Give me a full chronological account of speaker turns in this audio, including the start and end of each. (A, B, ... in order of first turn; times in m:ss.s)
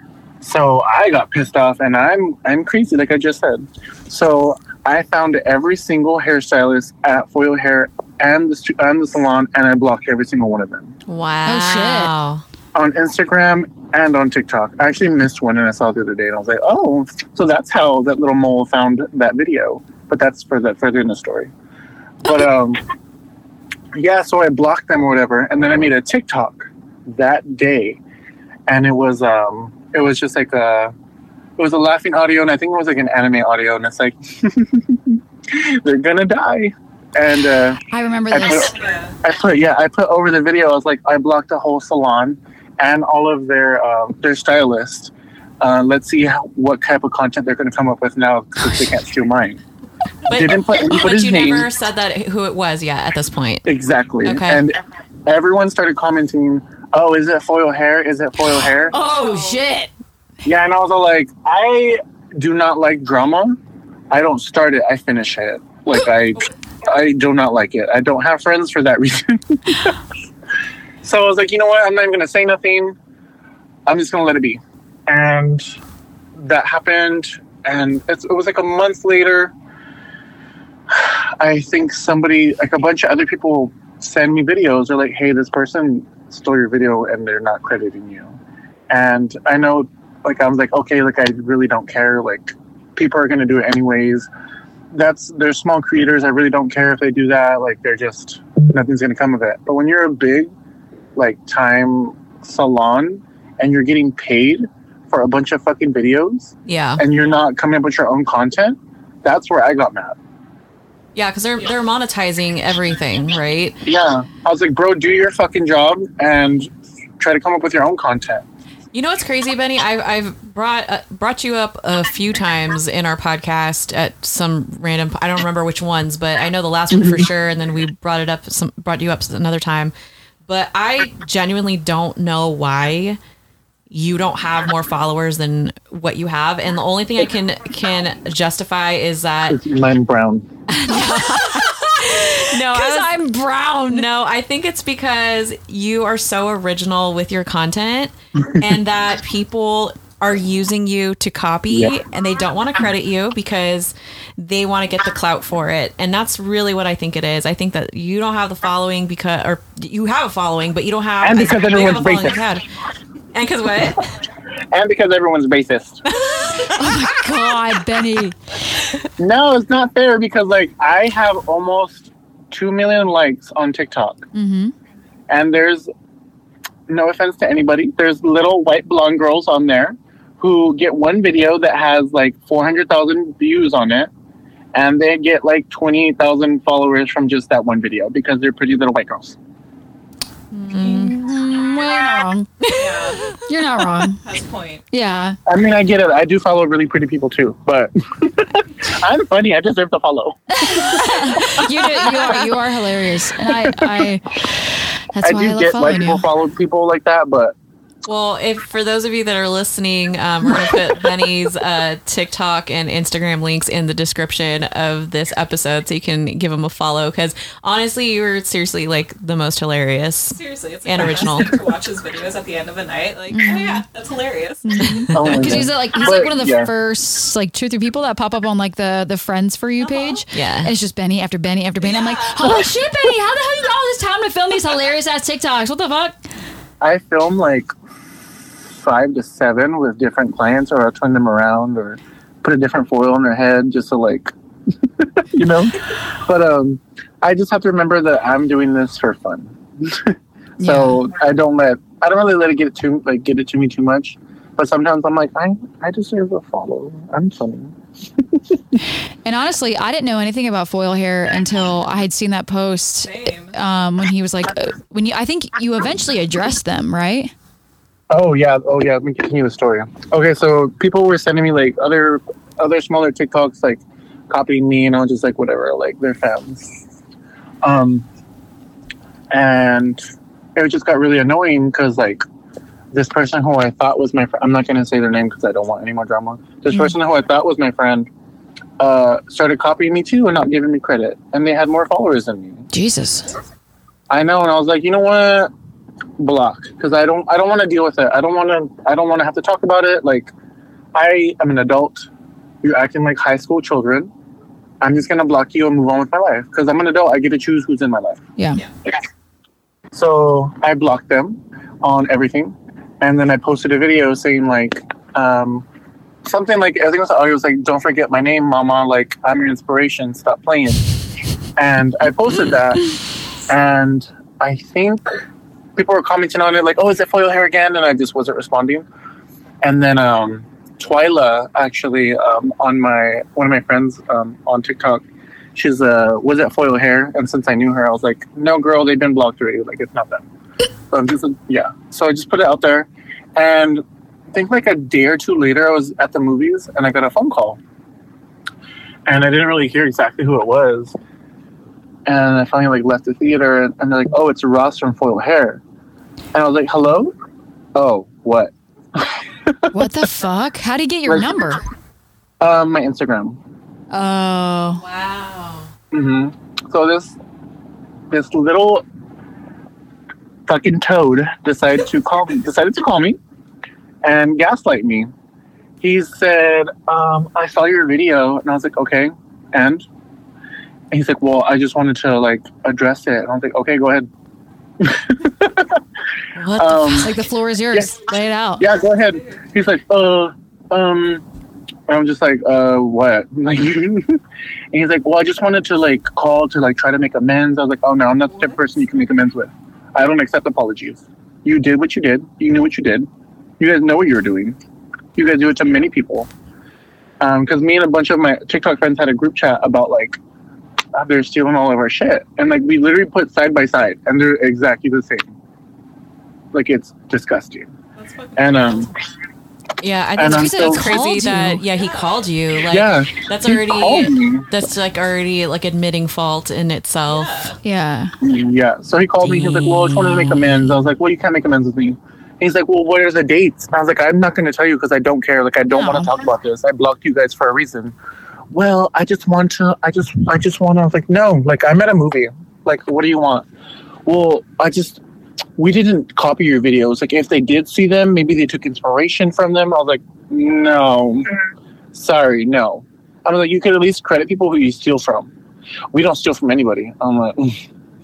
0:00.4-0:10.9 A
0:11.1-0:12.4 B
0:11.4-0:12.1 C
0:12.7-0:21.5 A
0:22.2-0:22.8 A
0:23.9-0:28.0 A
0:28.7-0:30.9 A
0:31.6-0:49.6 A
0:37.9-0:38.7 C
0:38.4-0:39.2 D
0:50.2-0:53.7 B
0:50.3-0:51.7 A
0:53.6-0:59.0 A
0:54.2-0:54.6 B
0:58.9-0:59.9 C
0:58.9-0:59.6 D
1:00.4-1:10.0 A
1:11.0-1:13.0 A
1:13.8-1:15.8 A
1:16.3-1:19.5 A
1:20.9-1:28.3 A
1:28.9-1:34.3 A
1:34.9-1:40.5 A
1:41.2-1:50.2 A
1:46.6-1:47.0 B
1:51.1-1:53.8 B
1:53.8-1:58.4 A
1:58.9-2:09.9 B
2:10.4-2:13.2 B
2:13.9-2:19.6 B
2:19.5-2:20.5 A
2:20.7-2:23.2 B
2:21.3-2:24.1 C
2:23.9-2:42.6 B
2:41.2-2:42.4 A
2:43.3-2:44.1 B
2:44.7-2:46.0 A
2:46.1-2:47.5 B
2:46.6-2:48.4 C
2:49.2-2:54.3 A
2:54.3-2:54.7 C
2:55.3-2:55.9 A
2:56.9-3:04.1 A
3:04.7-3:09.4 A
3:10.5-3:11.2 B
3:10.7-3:12.5 C
3:12.6-3:13.4 B
3:12.7-3:13.4 D
3:13.5-3:14.2 C
3:14.0-3:14.8 D
3:14.9-3:15.4 C
3:15.4-3:21.7 A
3:20.6-3:26.2 C
3:21.3-3:22.1 B
3:23.4-3:24.1 A
3:25.2-3:27.5 A
3:28.0-3:41.6 B
3:40.3-3:44.9 D
3:43.3-3:43.8 C
3:44.6-3:56.2 C
3:44.8-3:45.6 B
3:45.1-3:46.7 A
3:49.8-3:50.2 D
3:50.3-3:50.7 B
3:51.8-3:52.6 D
3:56.8-3:57.7 A
3:58.6-4:18.4 A
4:10.6-4:11.0 C
4:19.2-4:27.3 C
4:23.0-4:23.6 D
4:28.1-4:36.8 A
4:37.6-4:38.0 A
4:39.3-4:40.0 A
4:40.6-4:42.2 A
4:42.9-4:48.1 A
4:48.8-4:52.7 A
4:52.7-4:53.3 C
4:54.1-4:55.5 A
4:56.2-5:00.3 A
5:00.9-5:02.1 A
5:02.6-5:04.1 A
5:04.8-5:08.2 A
5:08.4-5:08.6 C
5:09.9-5:15.6 A
5:16.2-5:20.9 A
5:21.6-5:22.9 A
5:23.5-5:25.2 A
5:25.8-5:28.8 A
5:29.6-5:35.0 A
5:35.5-5:40.2 A
5:40.9-5:47.6 A
5:49.1-5:50.9 A
5:52.0-5:55.6 A
5:56.3-5:57.1 A
5:57.7-5:59.9 A
5:59.7-6:01.6 C
6:01.1-6:01.4 A
6:02.4-6:03.4 A
6:03.9-6:04.8 C
6:04.7-6:05.7 B
6:05.9-6:07.2 A
6:08.1-6:08.8 A
6:10.5-6:13.2 A
6:14.0-6:15.1 A
6:15.8-6:19.8 A
6:20.9-6:24.1 A
6:24.8-6:25.8 A
6:26.3-6:27.1 B
6:26.6-6:27.1 A
6:26.9-6:28.6 C
6:28.6-6:31.2 A
6:29.1-6:29.4 D
6:31.9-6:34.2 A
6:34.7-6:43.1 A
6:43.6-6:44.6 A
6:45.2-6:46.3 A
6:47.2-6:50.2 A
6:50.9-6:55.3 A
6:56.5-6:57.7 A
6:58.0-6:58.9 D
6:58.4-6:58.9 A
6:59.8-7:07.5 B
7:00.2-7:00.9 A
7:00.2-7:01.6 C
7:01.7-7:02.3 D
7:02.7-7:04.5 A
7:07.1-7:07.6 D
7:07.6-7:08.2 C
7:08.2-7:17.9 A
7:09.2-7:10.7 B
7:15.7-7:16.1 C
7:18.5-7:23.5 A
7:24.0-7:25.0 A
7:25.6-7:31.4 A
7:31.9-7:35.3 A
7:35.9-7:37.6 A